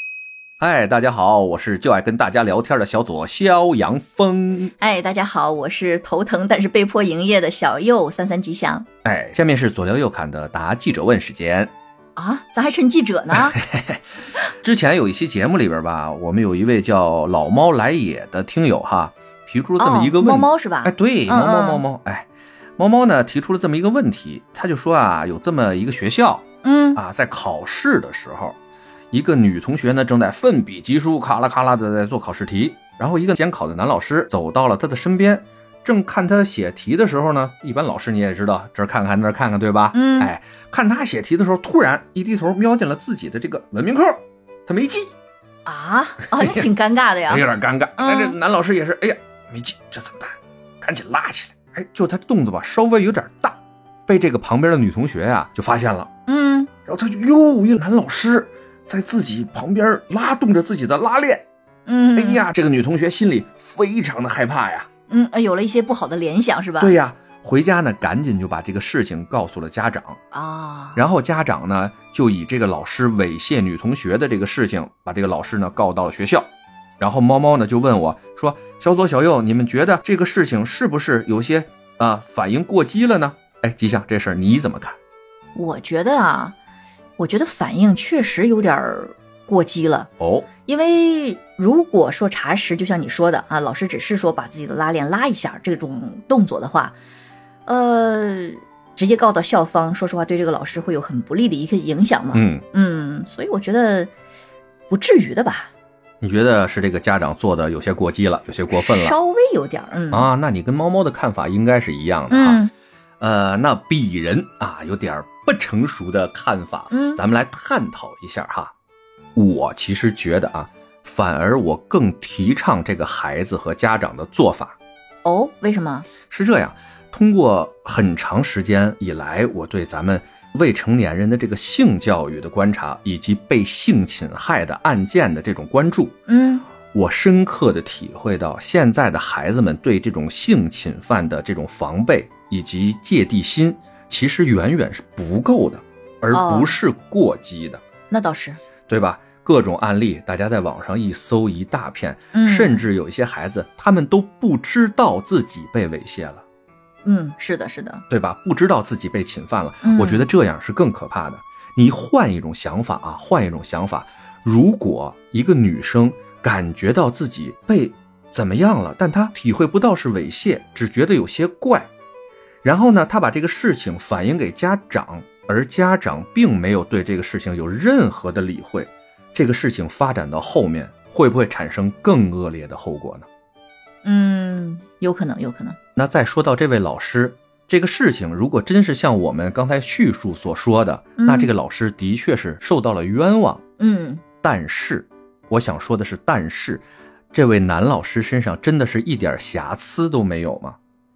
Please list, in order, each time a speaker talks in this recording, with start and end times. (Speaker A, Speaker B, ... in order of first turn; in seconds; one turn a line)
Speaker A: 0.6-4.7
Speaker B: 4.8-8.8
Speaker A: 9.0-11.7
Speaker B: 12.2-13.6
Speaker A: 13.5-14.0
Speaker A: 14.6-28.6
Speaker B: 19.8-21.8
Speaker B: 26.6-27.0
Speaker A: 29.1-45.1
Speaker B: 39.9-40.3
Speaker B: 45.6-48.4
Speaker A: 46.3-46.7
Speaker A: 47.3-56.1
Speaker B: 56.3-56.7
Speaker A: 56.9-61.4
Speaker B: 61.9-62.5
Speaker A: 62.1-64.9
Speaker B: 65.1-67.0
Speaker A: 66.8-70.2
Speaker B: 70.3-71.0
Speaker A: 71.0-76.5
Speaker A: 77.0-85.0
Speaker B: 85.5-86.5
Speaker B: 87.2-90.1
Speaker A: 90.2-90.5
Speaker B: 90.6-96.9
Speaker B: 97.7-104.1
Speaker A: 102.3-102.6
Speaker B: 104.9-105.7
Speaker A: 106.2-109.2
Speaker B: 108.8-110.3
Speaker A: 110.1-112.7
Speaker B: 112.3-112.7
Speaker A: 113.2-118.7
Speaker B: 116.9-117.2
Speaker A: 119.3-124.8
Speaker B: 125.2-126.1
Speaker A: 126.3-136.2
Speaker B: 136.3-136.7
Speaker A: 136.9-147.8
Speaker B: 146.3-146.8
Speaker B: 148.1-148.6
Speaker A: 148.9-156.4
Speaker B: 152.3-152.8
Speaker B: 157.0-158.0
Speaker A: 158.1-171.9
Speaker B: 159.8-160.3
Speaker A: 172.6-183.3
Speaker B: 184.0-185.8
Speaker A: 185.9-193.6
Speaker B: 191.2-191.5
Speaker B: 193.8-194.2
Speaker A: 194.4-200.8